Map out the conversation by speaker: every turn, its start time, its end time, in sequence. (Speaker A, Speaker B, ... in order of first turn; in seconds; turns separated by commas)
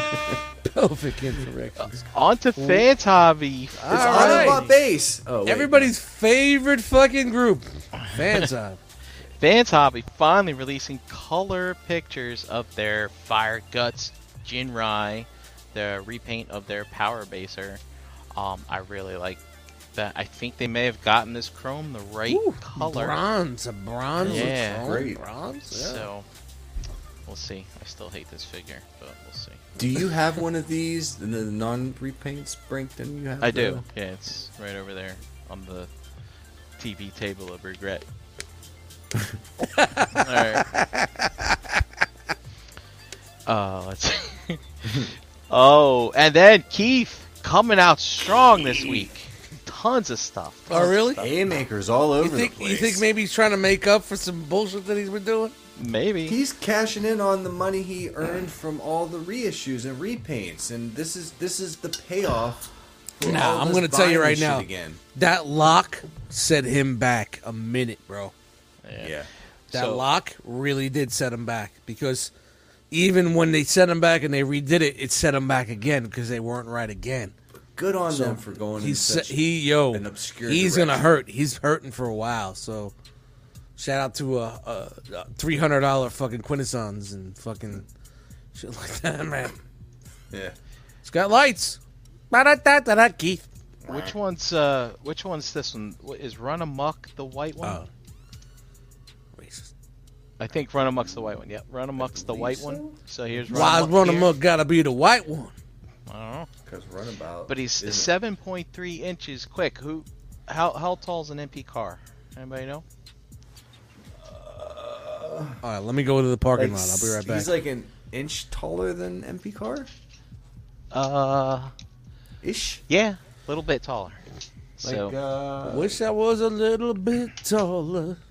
Speaker A: 0.6-2.9, Speaker B: 1.8-4.7, Speaker A: 3.7-4.6, Speaker C: 3.9-5.9, Speaker A: 5.4-8.8, Speaker B: 8.0-8.4, Speaker B: 9.4-17.8, Speaker B: 18.3-19.4, Speaker B: 19.9-23.2, Speaker A: 22.3-26.1, Speaker C: 24.2-25.2, Speaker B: 24.2-24.9, Speaker B: 25.6-26.3, Speaker B: 27.2-29.6, Speaker C: 29.8-33.8, Speaker B: 33.4-35.9, Speaker B: 36.8-38.0, Speaker A: 39.6-41.5, Speaker B: 40.1-40.7, Speaker B: 43.5-44.6, Speaker B: 45.5-51.2, Speaker C: 48.7-49.0, Speaker A: 50.7-51.3, Speaker C: 51.1-53.0, Speaker A: 52.2-55.5, Speaker B: 55.8-56.4, Speaker C: 56.2-65.0, Speaker A: 63.2-68.3, Speaker B: 68.8-69.2, Speaker C: 69.0-69.3, Speaker B: 69.7-70.1, Speaker A: 69.7-72.3, Speaker A: 72.9-77.3, Speaker C: 77.7-81.0, Speaker A: 78.1-82.9, Speaker A: 83.8-87.9, Speaker A: 88.5-89.6, Speaker C: 90.3-90.5, Speaker A: 91.0-91.8, Speaker A: 92.3-93.4, Speaker C: 93.8-94.2, Speaker B: 93.8-97.8, Speaker A: 97.6-97.9, Speaker A: 99.3-99.7, Speaker B: 100.4-104.3, Speaker C: 102.0-103.0, Speaker A: 103.5-105.5, Speaker B: 106.1-106.5, Speaker C: 106.7-108.1, Speaker B: 107.5-112.8, Speaker C: 114.2-115.6, Speaker A: 115.6-117.5, Speaker C: 116.5-119.9, Speaker B: 120.9-121.7, Speaker C: 122.4-122.8, Speaker B: 122.9-124.2, Speaker B: 124.8-125.1, Speaker C: 124.8-126.0, Speaker A: 125.6-128.2